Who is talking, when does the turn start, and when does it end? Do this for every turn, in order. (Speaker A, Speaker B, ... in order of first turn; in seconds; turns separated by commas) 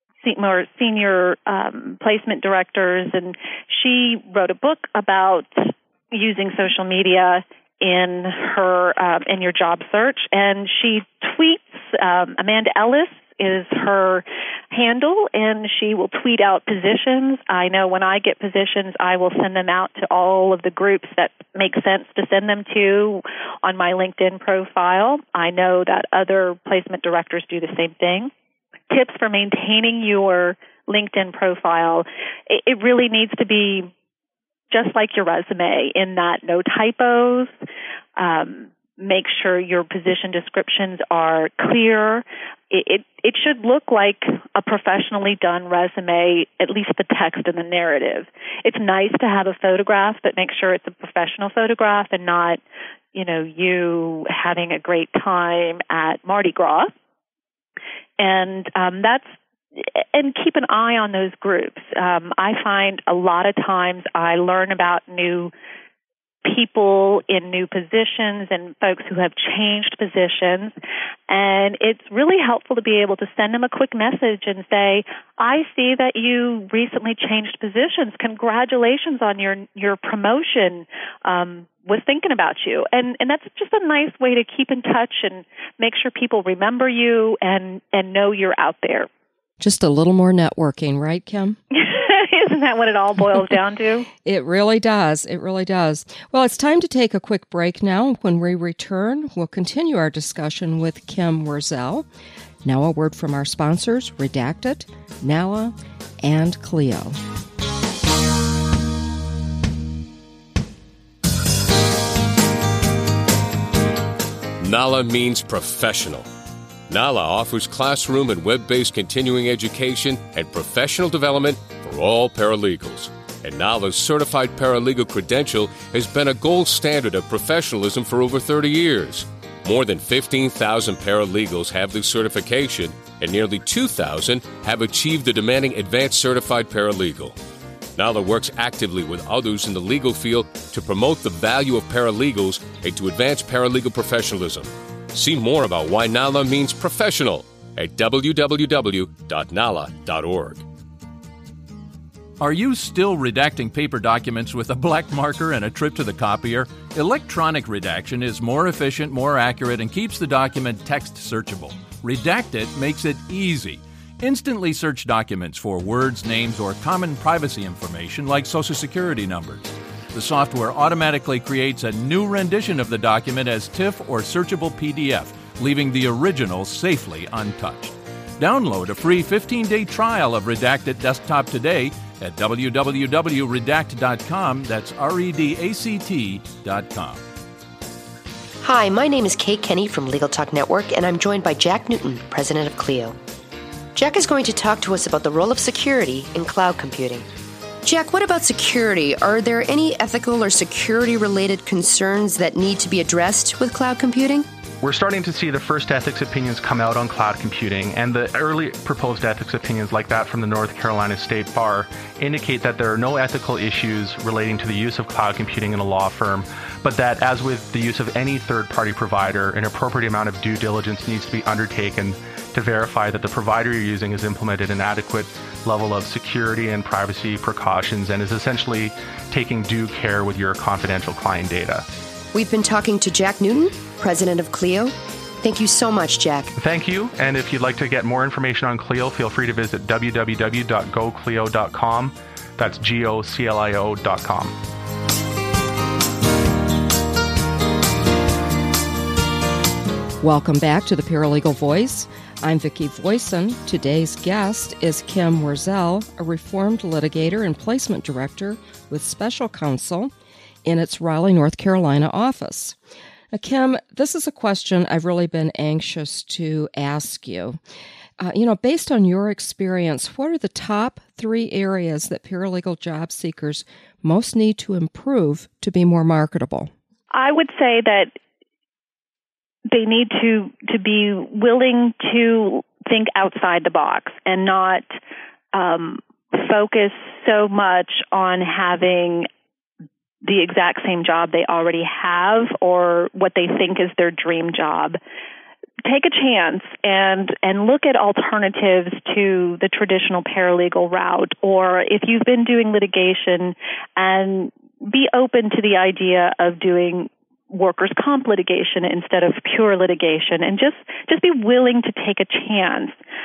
Speaker A: 0.2-28.3, Speaker A: 28.9-33.9, Speaker A: 34.7-37.5, Speaker A: 38.2-52.6, Speaker A: 53.1-56.9, Speaker A: 58.2-65.5, Speaker A: 66.4-70.7, Speaker A: 71.3-89.1, Speaker B: 89.6-91.6, Speaker A: 91.7-94.1, Speaker B: 94.2-102.0, Speaker B: 102.6-107.2, Speaker C: 114.6-116.3, Speaker C: 116.9-137.3, Speaker C: 137.9-150.6, Speaker D: 152.4-187.2, Speaker E: 188.6-193.2, Speaker E: 193.9-197.2, Speaker E: 197.8-204.5, Speaker F: 204.8-231.8, Speaker E: 232.3-236.5, Speaker F: 236.6-244.5, Speaker B: 250.2-260.1, Speaker B: 260.6-262.8, Speaker B: 263.3-267.6, Speaker B: 268.2-276.7, Speaker A: 277.1-278.1, Speaker A: 279.7-284.8, Speaker A: 285.5-289.3, Speaker A: 290.2-295.0, Speaker A: 295.8-313.0